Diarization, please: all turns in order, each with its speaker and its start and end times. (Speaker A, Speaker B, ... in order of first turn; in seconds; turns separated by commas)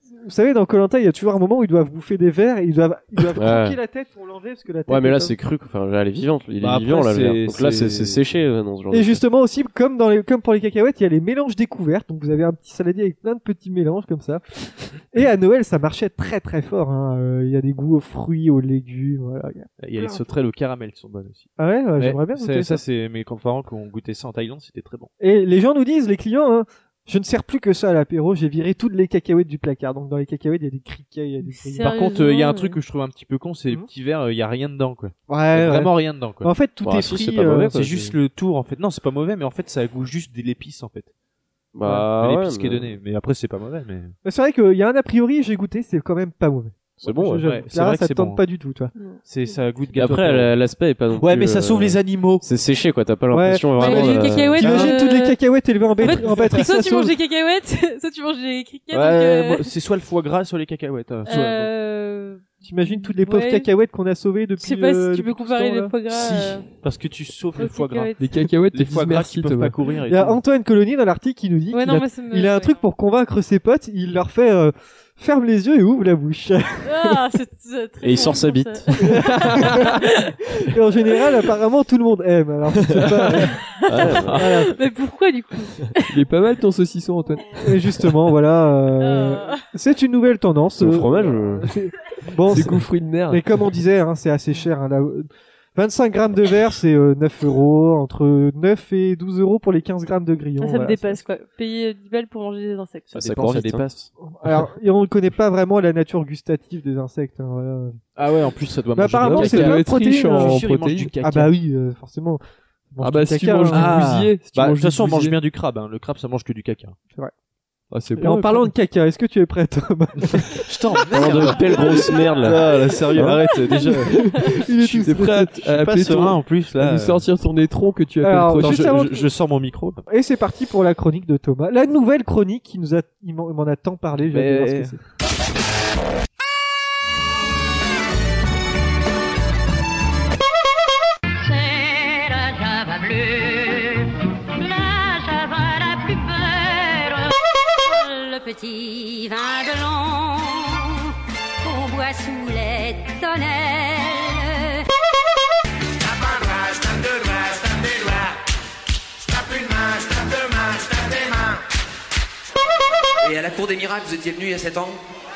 Speaker A: 0.1-5.3, Speaker B: 3.4-3.8, Speaker B: 4.9-9.2, Speaker C: 6.6-8.2, Speaker A: 8.9-20.2, Speaker C: 19.8-25.1, Speaker A: 21.6-22.8, Speaker A: 25.2-31.9, Speaker D: 31.5-32.8, Speaker C: 31.8-36.5, Speaker A: 35.3-37.9, Speaker B: 36.8-38.1, Speaker C: 37.6-41.1, Speaker B: 41.7-43.0, Speaker C: 41.8-44.1, Speaker A: 44.2-48.9, Speaker B: 47.0-47.5, Speaker C: 47.4-48.4, Speaker D: 49.0-49.2, Speaker C: 49.2-50.5, Speaker B: 49.9-54.6, Speaker C: 51.1-52.4, Speaker A: 53.3-57.1, Speaker D: 53.8-55.4, Speaker C: 54.6-54.9, Speaker D: 56.0-59.7, Speaker C: 58.9-61.7, Speaker D: 61.2-63.7, Speaker A: 62.6-65.9, Speaker D: 64.6-66.7, Speaker C: 66.1-68.2, Speaker D: 67.6-68.2, Speaker E: 68.2-69.8, Speaker C: 68.7-70.4, Speaker A: 70.1-77.2, Speaker D: 71.7-72.8, Speaker D: 76.8-80.3, Speaker B: 78.0-78.8, Speaker A: 79.1-80.0, Speaker E: 79.3-79.8, Speaker A: 80.6-83.6, Speaker E: 82.8-83.5, Speaker D: 83.5-86.2, Speaker B: 83.9-84.4, Speaker A: 84.3-84.7, Speaker E: 86.1-88.1, Speaker A: 87.6-101.2, Speaker D: 89.0-89.7, Speaker B: 90.8-91.7, Speaker E: 92.5-93.5, Speaker D: 100.6-103.1, Speaker C: 103.1-103.9, Speaker B: 103.1-104.1, Speaker A: 104.3-108.0, Speaker C: 108.2-111.5, Speaker A: 108.9-110.7, Speaker E: 109.2-111.2, Speaker A: 111.2-112.4, Speaker A: 112.9-114.0, Speaker E: 113.0-115.4, Speaker C: 113.7-117.0, Speaker E: 117.9-118.7, Speaker A: 118.2-120.7, Speaker C: 120.2-127.2, Speaker B: 121.1-122.6, Speaker D: 123.5-124.5, Speaker A: 124.0-125.5, Speaker E: 125.0-129.0, Speaker A: 128.2-129.3, Speaker C: 128.6-130.0, Speaker A: 130.1-135.0, Speaker C: 134.3-135.0, Speaker F: 141.4-147.3, Speaker F: 147.8-154.8, Speaker G: 155.9-158.4, Speaker G: 159.2-161.6, Speaker G: 163.2-165.0